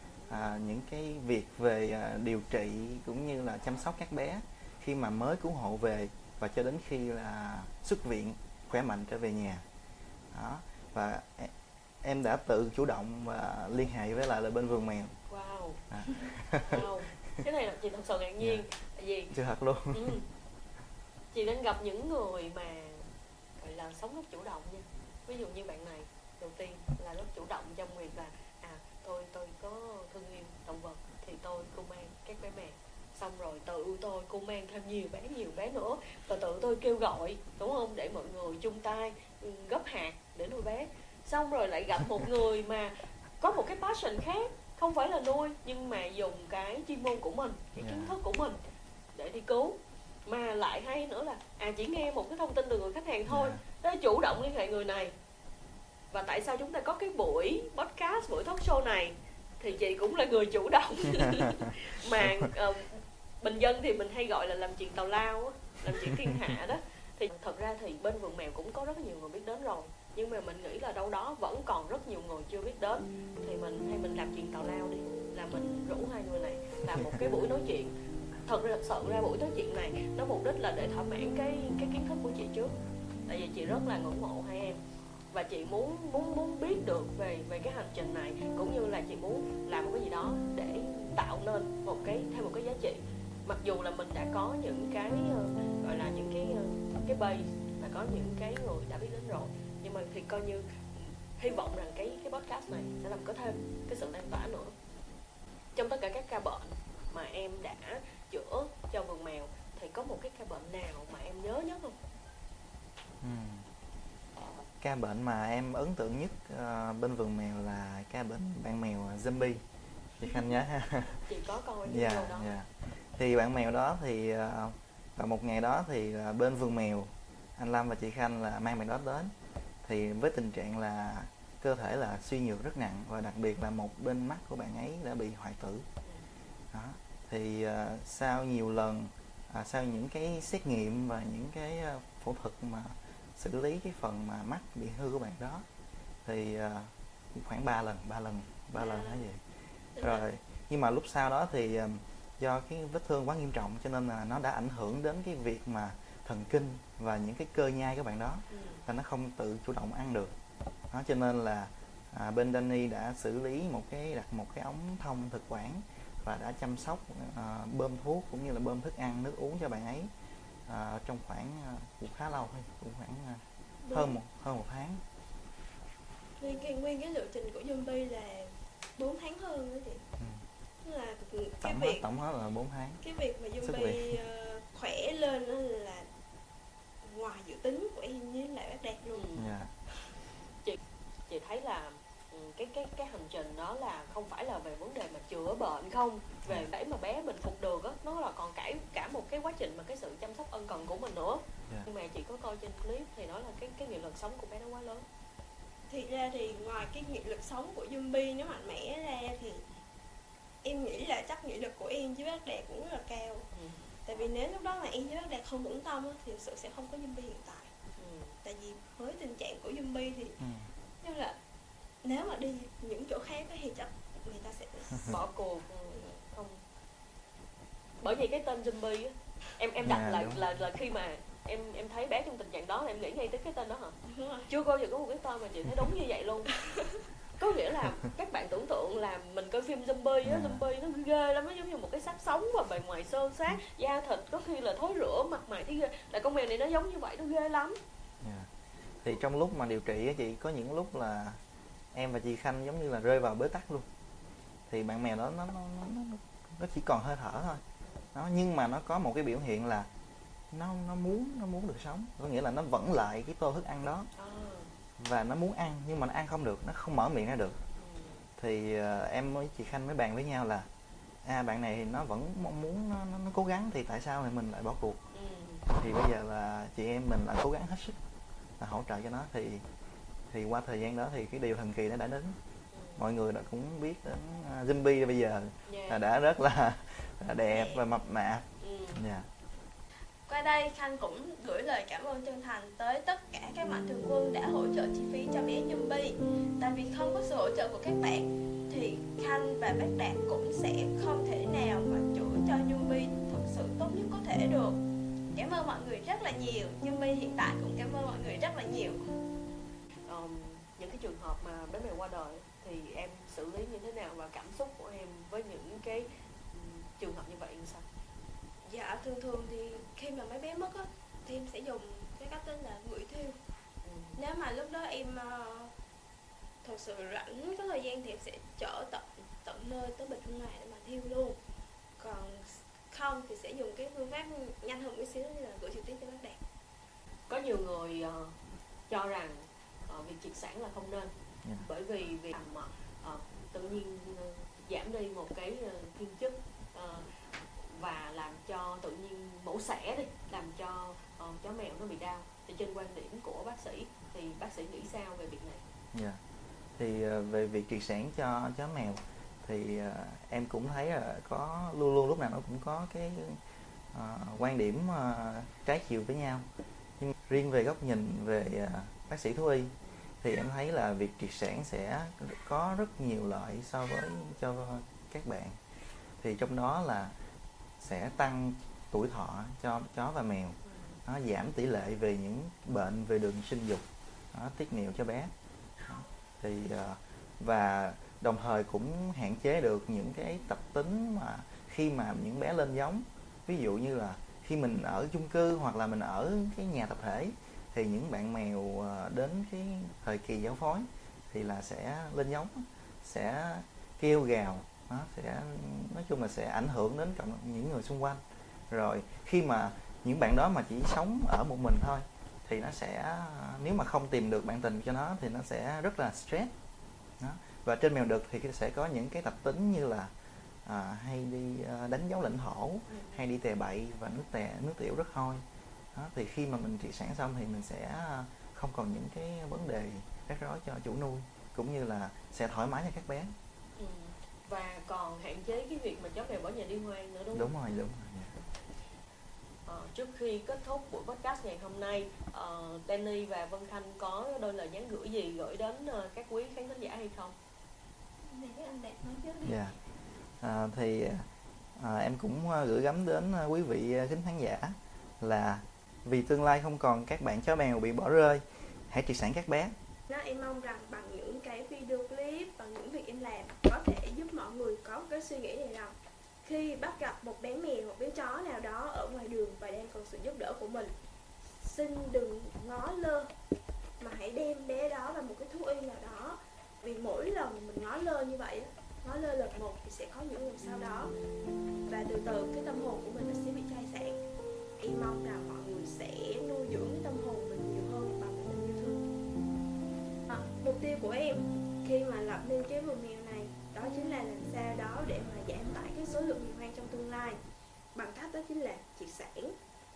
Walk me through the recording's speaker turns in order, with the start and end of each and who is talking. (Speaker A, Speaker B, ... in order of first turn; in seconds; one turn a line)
Speaker A: 0.3-9.6
Speaker A: 10.3-11.5
Speaker A: 12.0-15.1
Speaker B: 15.3-19.3
Speaker A: 15.9-16.9
Speaker A: 19.3-20.1
Speaker B: 19.9-20.2
Speaker B: 21.3-23.1
Speaker B: 23.6-48.6
Speaker A: 47.8-48.1
Speaker B: 49.1-55.1
Speaker A: 53.3-53.6
Speaker B: 56.1-77.9
Speaker A: 77.0-77.3
Speaker B: 78.5-82.7
Speaker B: 83.3-84.8
Speaker B: 85.3-104.7
Speaker B: 105.8-112.0
Speaker A: 113.2-113.6
Speaker A: 114.8-119.6
Speaker A: 120.2-121.2
Speaker B: 121.3-122.5
Speaker A: 121.9-129.3
Speaker A: 129.8-135.8
Speaker A: 136.7-145.6
Speaker A: 146.2-149.4
Speaker B: 148.8-149.2
Speaker A: 150.0-160.3
Speaker B: 158.5-158.8
Speaker A: 160.9-170.1
Speaker A: 170.7-175.0
Speaker C: 173.8-174.2
Speaker C: 176.4-180.0
Speaker C: 180.8-182.1
Speaker A: 181.6-183.0
Speaker C: 183.0-186.1
Speaker A: 183.6-184.2
Speaker C: 187.0-189.3
Speaker B: 189.1-189.5
Speaker A: 189.3-189.7
Speaker B: 191.3-205.1
Speaker C: 205.9-209.6
Speaker C: 210.6-213.4
Speaker B: 213.5-213.8
Speaker C: 214.1-217.7
Speaker B: 218.0-218.3
Speaker C: 218.4-220.4
Speaker A: 220.4-220.7
Speaker C: 221.0-221.3
Speaker C: 222.0-225.2
Speaker B: 225.0-226.6
Speaker B: 228.0-233.9
Speaker A: 229.8-230.4
Speaker C: 234.0-234.5
Speaker B: 234.5-236.5
Speaker C: 236.6-236.9
Speaker B: 237.4-247.8
Speaker A: 240.2-240.6
Speaker A: 248.2-248.5
Speaker A: 249.0-251.4
Speaker A: 251.9-253.9
Speaker A: 254.7-257.6
Speaker A: 258.1-259.9
Speaker A: 260.5-264.1
Speaker B: 264.1-264.7
Speaker A: 265.0-267.6
Speaker B: 267.8-268.2
Speaker A: 268.4-270.7
Speaker A: 271.2-275.0
Speaker B: 275.1-275.6
Speaker A: 275.7-277.9
Speaker A: 278.6-279.6
Speaker A: 280.3-282.4
Speaker B: 282.7-283.0
Speaker A: 283.0-289.2
Speaker B: 285.7-286.0
Speaker C: 287.5-287.8
Speaker B: 288.6-289.0
Speaker C: 290.3-304.8
Speaker C: 305.3-309.0
Speaker B: 310.1-317.8
Speaker C: 318.6-323.4
Speaker B: 323.8-324.2
Speaker C: 324.2-325.7
Speaker C: 326.6-331.4
Speaker C: 332.0-336.4
Speaker B: 337.3-338.3
Speaker B: 338.9-341.1
Speaker B: 341.6-347.1
Speaker B: 347.6-355.6
Speaker A: 355.9-356.2
Speaker A: 356.8-363.4
Speaker A: 363.9-366.4
Speaker A: 367.0-375.6
Speaker A: 376.2-377.1
Speaker A: 377.8-385.3
Speaker A: 385.9-408.2
Speaker A: 408.7-416.5
Speaker A: 417.2-420.1
Speaker A: 420.6-425.4
Speaker B: 422.9-423.2
Speaker A: 425.9-433.3
Speaker B: 433.8-437.5
Speaker A: 437.3-438.3
Speaker B: 439.6-447.3
Speaker C: 448.2-449.5
Speaker A: 449.4-449.7
Speaker A: 450.4-459.7
Speaker C: 460.1-470.9
Speaker C: 471.6-473.3
Speaker C: 474.0-481.1
Speaker C: 481.9-484.2
Speaker C: 484.8-489.1
Speaker C: 490.3-497.4
Speaker C: 497.9-499.6